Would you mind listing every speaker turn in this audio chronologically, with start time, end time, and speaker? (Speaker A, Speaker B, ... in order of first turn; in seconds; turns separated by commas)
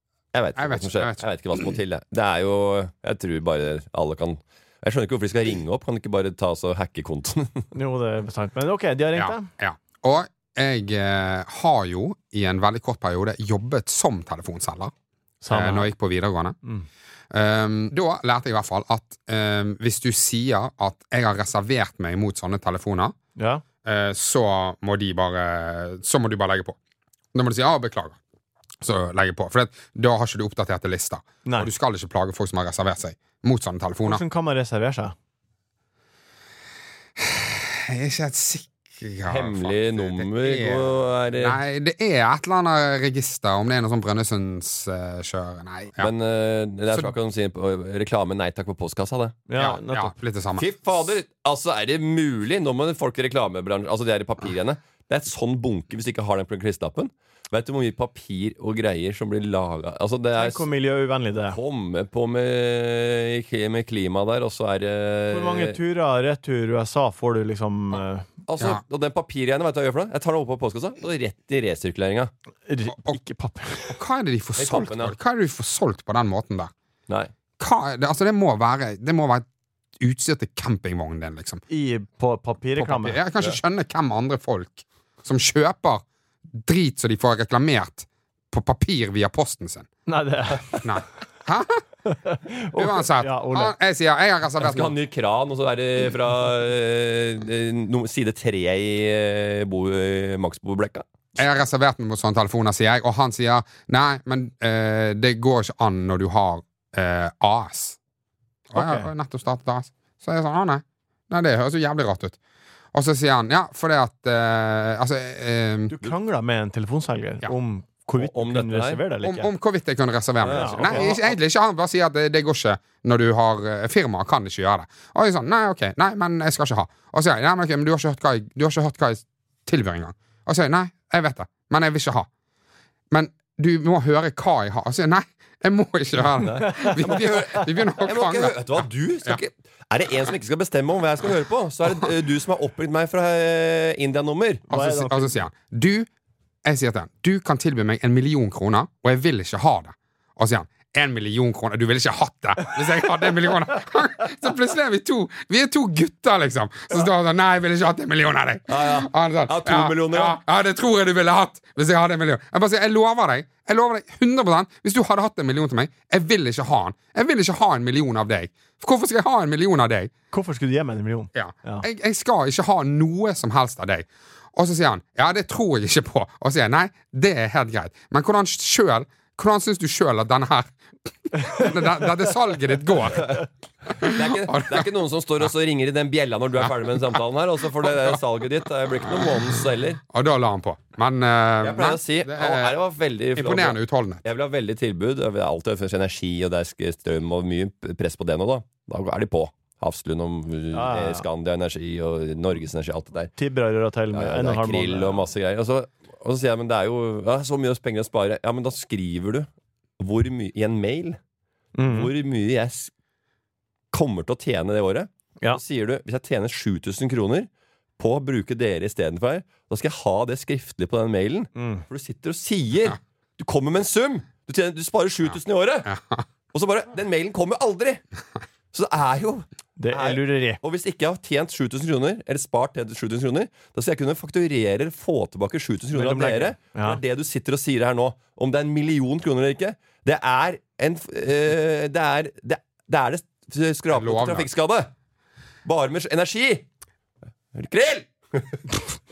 Speaker A: 0.3-7.7, Speaker B: 0.6-1.2, Speaker C: 7.7-9.5, Speaker B: 9.1-14.9, Speaker C: 15.4-15.9, Speaker B: 15.5-16.6, Speaker B: 17.3-23.1, Speaker C: 23.4-23.6, Speaker B: 23.8-26.8, Speaker B: 27.3-28.2, Speaker B: 28.8-34.2, Speaker C: 31.4-31.7, Speaker C: 34.0-35.1, Speaker B: 37.2-46.1, Speaker A: 39.3-41.6, Speaker A: 46.0-49.4, Speaker C: 49.5-50.1, Speaker B: 49.5-50.8, Speaker A: 50.6-60.7, Speaker C: 60.4-61.6, Speaker A: 61.5-65.8, Speaker C: 65.3-68.3, Speaker A: 68.5-72.3, Speaker C: 72.7-74.0, Speaker B: 73.9-76.7, Speaker A: 74.6-75.1, Speaker B: 77.6-79.5, Speaker B: 80.0-81.6, Speaker C: 81.7-83.2, Speaker B: 82.8-89.9, Speaker C: 90.1-90.8, Speaker B: 90.8-91.8, Speaker C: 92.0-93.7, Speaker B: 92.7-94.9, Speaker A: 94.6-101.0, Speaker B: 101.4-108.0, Speaker B: 108.7-112.4, Speaker C: 108.7-109.1, Speaker B: 112.9-115.9, Speaker C: 115.9-119.5, Speaker A: 118.2-119.0, Speaker B: 119.2-132.3, Speaker A: 120.4-121.2, Speaker C: 120.5-121.1, Speaker B: 133.1-139.4, Speaker A: 136.4-144.6, Speaker C: 136.7-137.2, Speaker C: 144.7-145.4, Speaker B: 144.7-146.1, Speaker B: 146.6-170.1, Speaker A: 158.7-160.4, Speaker C: 170.3-171.8, Speaker B: 171.3-180.7, Speaker B: 181.3-183.4, Speaker C: 181.4-181.7, Speaker A: 183.9-190.0, Speaker B: 184.0-184.9, Speaker B: 190.1-192.8, Speaker A: 191.6-203.3, Speaker B: 193.3-194.2, Speaker C: 200.7-201.2, Speaker C: 203.4-205.2, Speaker A: 204.1-209.5, Speaker A: 210.0-211.2, Speaker C: 211.7-212.1, Speaker A: 211.8-212.9, Speaker A: 213.9-217.5, Speaker A: 218.0-225.9, Speaker C: 221.5-221.8, Speaker B: 225.8-226.2, Speaker A: 226.5-228.0, Speaker A: 228.7-244.9, Speaker C: 229.8-230.6, Speaker C: 235.9-237.0, Speaker B: 243.9-244.5, Speaker A: 245.6-246.6, Speaker A: 247.5-248.6